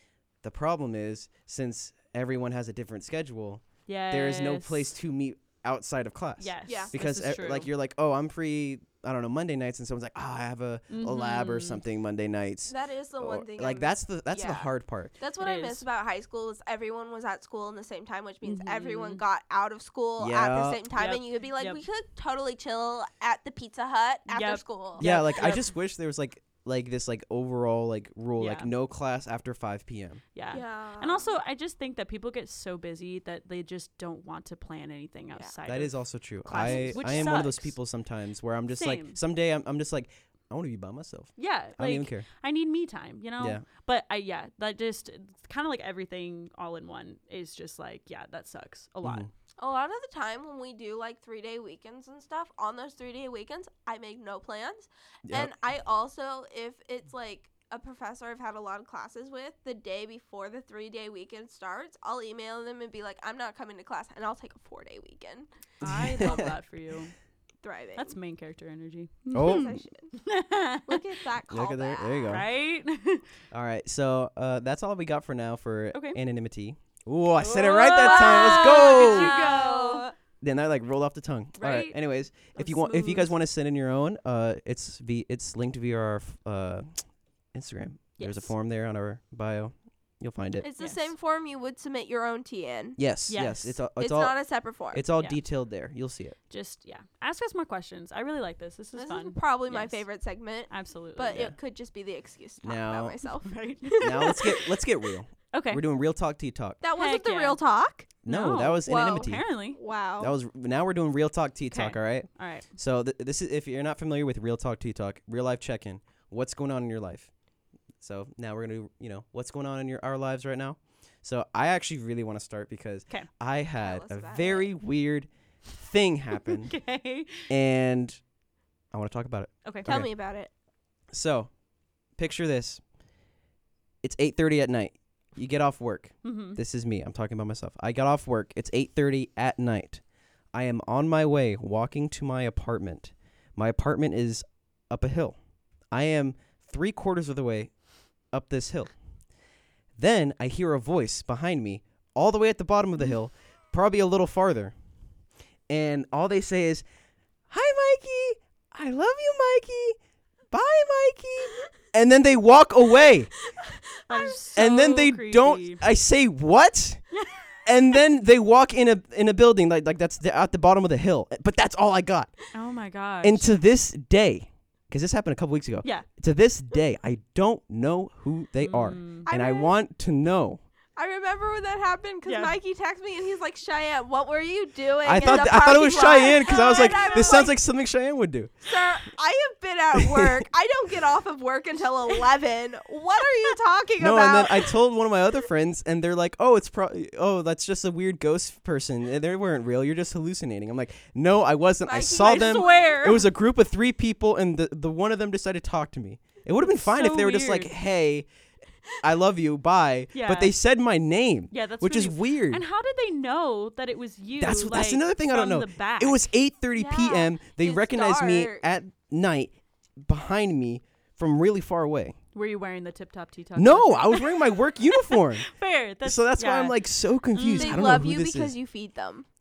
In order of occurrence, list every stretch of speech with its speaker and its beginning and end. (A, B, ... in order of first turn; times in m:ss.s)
0:00.4-0:15.1 A
0:03.9-0:05.0 B
0:06.4-0:07.7 B
0:06.6-0:06.9 C
0:10.9-0:11.8 B
0:12.7-0:25.5 C
0:15.4-0:15.8 B
0:18.4-0:19.2 B
0:20.2-0:20.8 A
0:21.0-0:21.8 B
0:24.3-0:25.7 B
0:25.0-0:30.2 A
0:28.4-0:28.7 B
0:30.3-0:37.7 B
0:30.5-0:31.3 C
0:35.6-0:42.2 A
0:36.5-0:37.4 C
0:38.7-0:39.2 B
0:41.4-0:49.3 B
0:43.4-0:43.6 A
0:49.0-0:49.3 A
0:49.6-1:05.5 C
0:55.2-0:55.5 A
1:05.8-1:06.5 A
1:05.8-1:07.1 B
1:06.2-1:06.5 C
1:07.6-1:08.1 C
1:08.0-1:11.0 B
1:09.3-1:09.7 A
1:09.4-1:10.1 C
1:10.8-1:12.3 C
1:11.5-1:12.4 A
1:12.3-1:13.2 B
1:13.5-1:19.4 A
1:15.9-1:16.2 B
1:17.4-1:20.0 B
1:18.0-1:20.1 C
1:20.4-1:30.6 A
1:21.6-1:23.3 B
1:28.2-1:28.5 B
1:30.6-1:33.0 C
1:30.8-1:31.1 B
1:33.0-1:34.4 A
1:33.3-1:33.8 B
1:34.0-1:35.0 C
1:34.9-1:36.4 A
1:36.5-1:40.0 B
1:39.0-1:44.4 C
1:40.7-1:41.4 B
1:42.6-1:43.2 A
1:43.4-1:44.8 B
1:44.0-1:46.8 A
1:45.5-1:45.8 B
1:46.8-1:48.1 C
1:46.9-1:47.6 B
1:48.2-1:49.4 A
1:48.2-1:49.8 B
1:48.8-1:50.3 C
1:50.2-1:57.3 A
1:51.7-1:52.7 B
1:58.0-2:06.8 A
2:03.8-2:04.7 C
2:06.5-2:07.5 B
2:07.5-2:08.2 A
2:08.9-2:10.1 A
2:09.8-2:10.5 C
2:11.1-2:11.5 A
2:12.2-2:12.8 A
2:14.0-2:20.0 A
2:16.2-2:16.6 B
2:20.5-2:25.4 A
2:25.9-2:27.7 A
2:28.3-2:28.9 A
2:30.0-2:34.7 A
2:35.7-2:36.8 A
2:37.5-2:40.0 A
2:40.5-2:43.3 A
2:43.5-2:44.4 C
2:44.1-2:45.8 B
2:44.6-2:47.0 A
2:47.1-2:47.5 B
2:47.6-2:52.3 A
2:52.5-2:53.5 B
2:53.2-3:00.6 A
2:58.6-2:59.3 B
2:59.2-2:59.7 C
3:01.0-3:07.5 C
3:02.2-3:02.6 B
3:05.0-3:08.7 A
3:06.2-3:07.4 B
3:08.6-3:14.7 C
3:10.0-3:10.4 A
3:14.0-3:28.3 A
3:21.8-3:23.0 C
3:22.2-3:23.3 B
3:26.6-3:27.7 B
3:29.0-3:32.6 A
3:30.1-3:30.5 B
3:31.5-3:36.3 B
3:34.4-3:42.2 A
3:36.8-3:38.6 C
3:42.3-3:46.8 B
3:43.6-3:45.5 A
3:46.0-3:48.5 A
3:47.3-3:47.9 B
3:47.5-3:49.2 C